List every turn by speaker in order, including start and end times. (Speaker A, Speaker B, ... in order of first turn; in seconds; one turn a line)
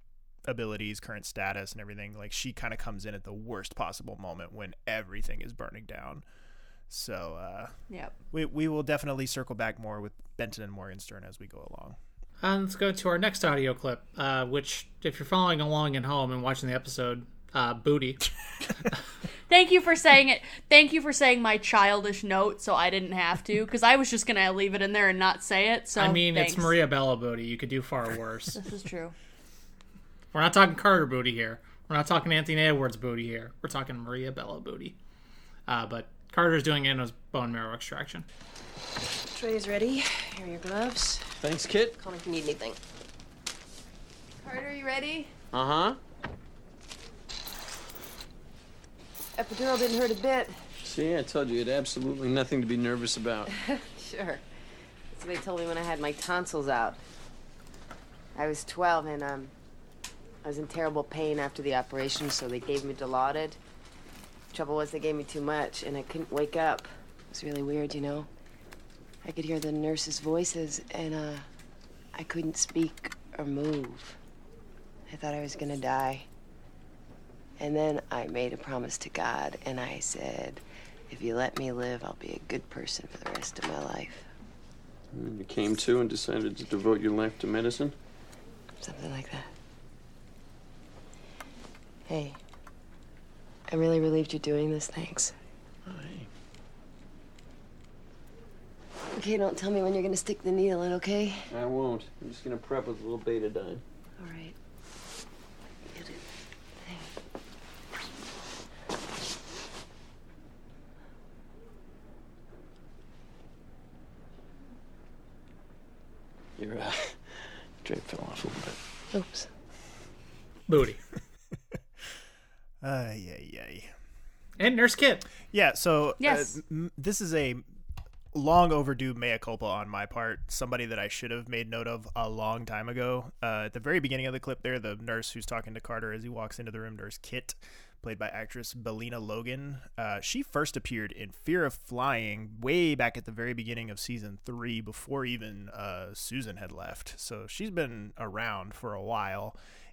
Speaker A: 0.5-6.2
Speaker A: 6.9-7.7
Speaker A: 8.3-12.0
Speaker B: 12.4-18.3
Speaker C: 19.5-26.8
Speaker B: 26.0-28.6
Speaker C: 28.6-29.1
Speaker B: 30.3-35.0
Speaker B: 35.7-38.3
Speaker D: 39.3-41.3
Speaker E: 41.4-42.0
Speaker D: 42.0-42.8
Speaker C: 44.5-45.3
Speaker E: 45.5-46.0
Speaker D: 49.4-50.6
Speaker E: 50.8-53.5
Speaker D: 54.0-54.4
Speaker D: 55.1-57.0
Speaker D: 58.4-59.5
Speaker D: 60.4-63.6
Speaker D: 64.5-68.3
Speaker D: 69.2-71.5
Speaker D: 72.2-74.2
Speaker D: 75.1-76.3
Speaker D: 77.6-84.3
Speaker E: 85.1-88.0
Speaker D: 88.8-89.5
Speaker D: 92.1-92.4
Speaker D: 93.7-95.3
Speaker E: 95.9-96.3
Speaker D: 99.2-101.5
Speaker E: 101.5-103.8
Speaker D: 104.2-104.5
Speaker D: 105.9-106.2
Speaker D: 106.8-107.1
Speaker E: 116.6-118.8
Speaker D: 119.1-119.5
Speaker B: 120.7-121.0
Speaker A: 122.8-123.9
Speaker B: 124.6-125.3
Speaker A: 125.5-127.7
Speaker C: 126.2-126.6
Speaker A: 128.3-149.6